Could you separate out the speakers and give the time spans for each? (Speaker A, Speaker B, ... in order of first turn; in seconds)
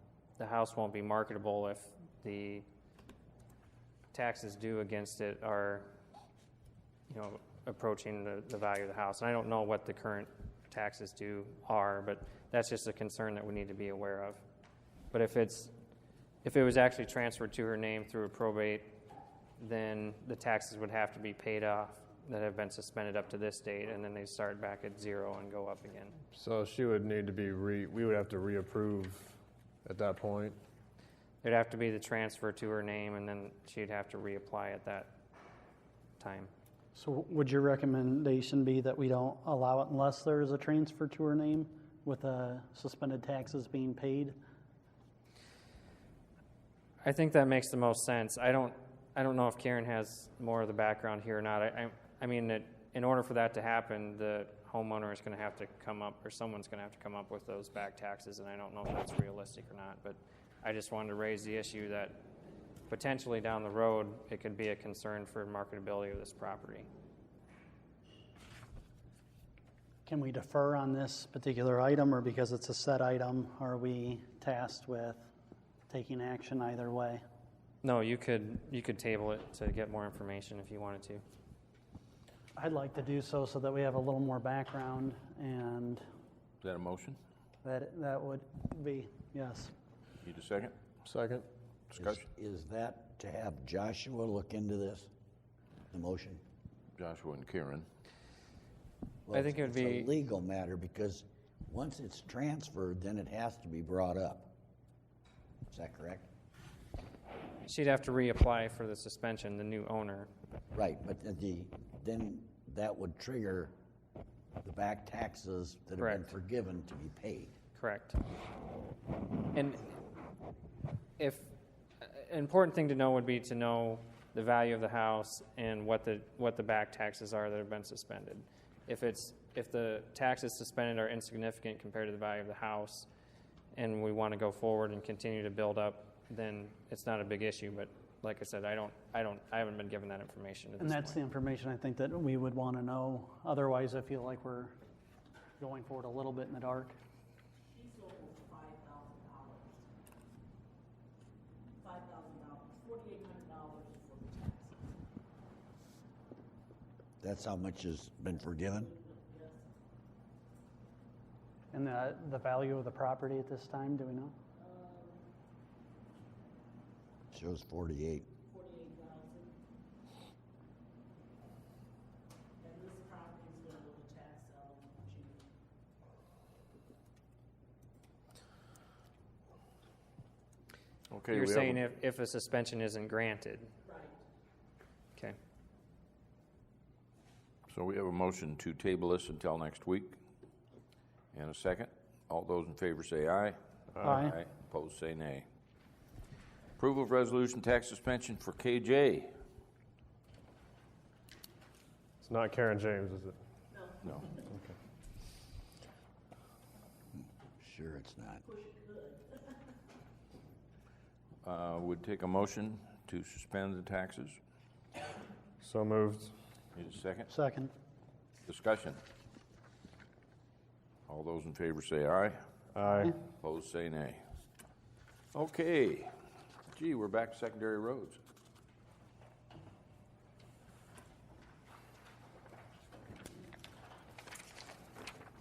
Speaker A: 0.4-2.6, 4.1-5.9, 7.1-14.4, 15.1-15.7, 16.4-18.9, 19.6-26.1, 31.4-35.1, 36.2-36.5, 47.0-62.2, 62.9-66.9, 77.8-81.2, 99.3-100.1, 107.6-110.3, 116.0-116.3, 117.7-118.2, 119.5-119.8, 121.2-133.1, 133.7-141.2, 181.3-183.7
Speaker B: 26.3-30.6, 91.0-91.5, 202.2-203.4, 215.6-216.3, 222.7-223.1
Speaker C: 36.9-44.4, 70.0-75.3, 75.9-77.2, 82.5-86.0, 87.6-89.7, 140.8-144.8, 145.6-146.9, 161.7-164.3, 194.1-194.4, 217.3-217.7
Speaker D: 86.6-87.2, 90.2-90.7, 97.0-97.8, 181.1-181.8, 187.7-190.2, 191.3-195.4, 196.8-199.3, 204.0-204.3, 211.4-214.4, 216.7-217.3, 218.4-219.0, 221.1-222.4, 223.4-224.2, 225.3-226.1, 226.7-228.2
Speaker E: 92.0-95.1, 95.9-96.4, 99.2-104.5, 105.7-106.3, 110.7-113.7, 114.6-117.5, 157.2-158.9, 167.3-168.3, 207.6-208.4
Speaker F: 147.7-149.8, 151.8-154.8, 158.8-159.7, 164.6-165.2, 168.4-169.5, 172.6-175.5, 183.8-184.2, 203.7-204.2, 208.4-209.5